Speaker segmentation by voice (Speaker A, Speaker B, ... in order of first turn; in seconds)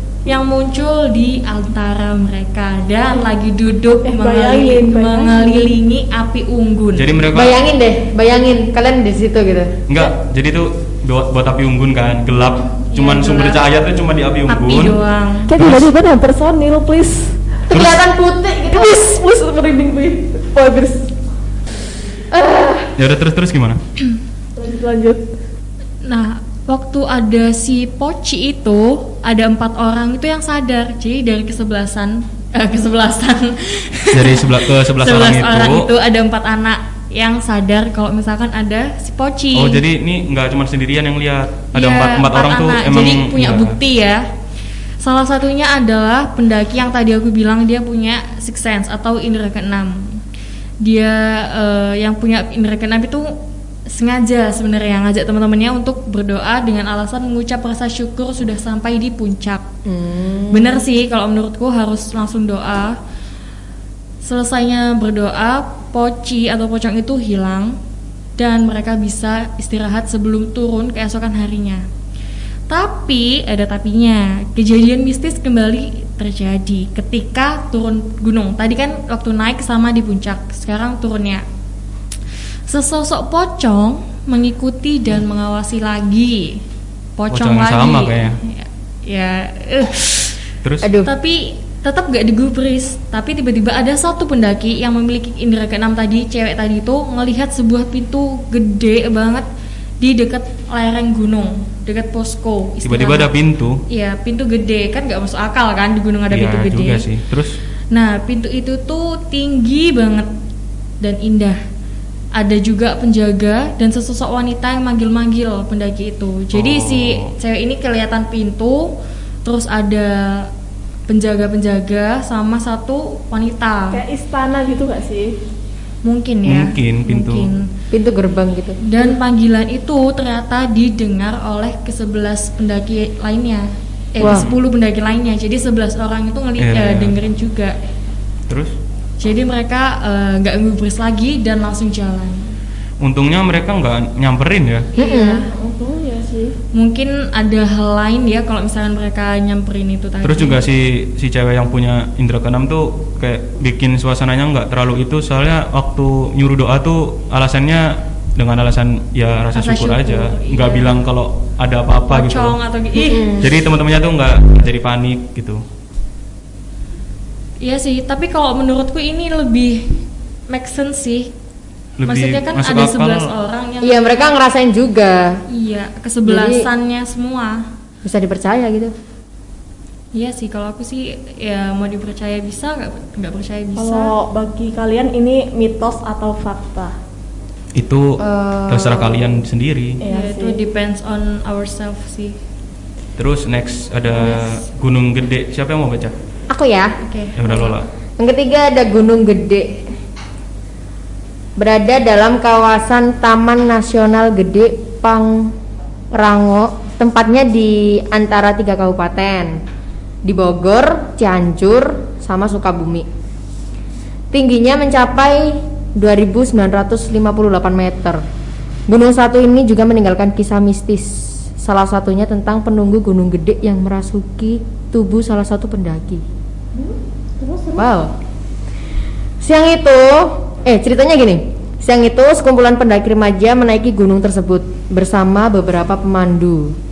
Speaker A: 0.3-7.1, 12.9-13.6, 14.5-15.5, 26.0-39.8, 41.7-44.3, 45.0-50.2, 50.8-53.4, 53.9-59.6, 60.5-63.0, 64.2-67.8, 68.4-71.9, 72.7-81.5, 82.7-86.6, 87.2-90.4, 91.0-99.5, 100.0-103.3, 103.9-107.1, 107.9-110.3, 111.0-111.6, 112.3-120.5, 121.1-124.0, 126.0-127.7, 128.8-137.8, 139.2-142.5, 145.0-145.4, 146.7-150.6, 159.5-160.9, 162.1-163.4, 167.6-171.3, 172.1-174.1, 175.5-177.7, 180.1-184.2, 190.0-192.4, 194.2-194.6, 197.0-197.8
Speaker B: 4.0-5.8, 15.5-17.5, 18.6-21.1, 24.6-25.2, 123.9-125.4, 145.3-146.6, 183.8-186.9, 190.0-190.6, 227.4-227.8
Speaker C: 7.0-7.6, 9.9-15.0, 15.6-15.8, 17.7-18.0, 23.0-23.8, 34.1-35.9, 39.5-43.8, 87.3-88.4, 90.6-90.9, 102.8-103.8, 106.3-107.6, 116.5-117.3, 126.5-127.5, 136.6-137.2, 138.5-138.8, 143.0-144.9, 150.2-162.6, 163.4-165.6, 172.0-173.3, 187.8-190.0, 193.2-196.2, 197.4-197.9
Speaker D: 7.3-9.8, 17.7-19.2, 22.3-22.9, 59.9-60.8, 90.8-91.1, 127.9-128.8, 134.2-134.5, 145.0-145.5, 163.0-163.5, 173.8-175.4, 176.3-176.7, 178.0-178.9, 188.2-189.4, 196.5-196.9, 198.2-199.8, 201.6-205.5, 206.2-209.6, 210.2-213.1, 214.3-218.2, 218.9-226.2, 227.7-228.1, 229.4-236.8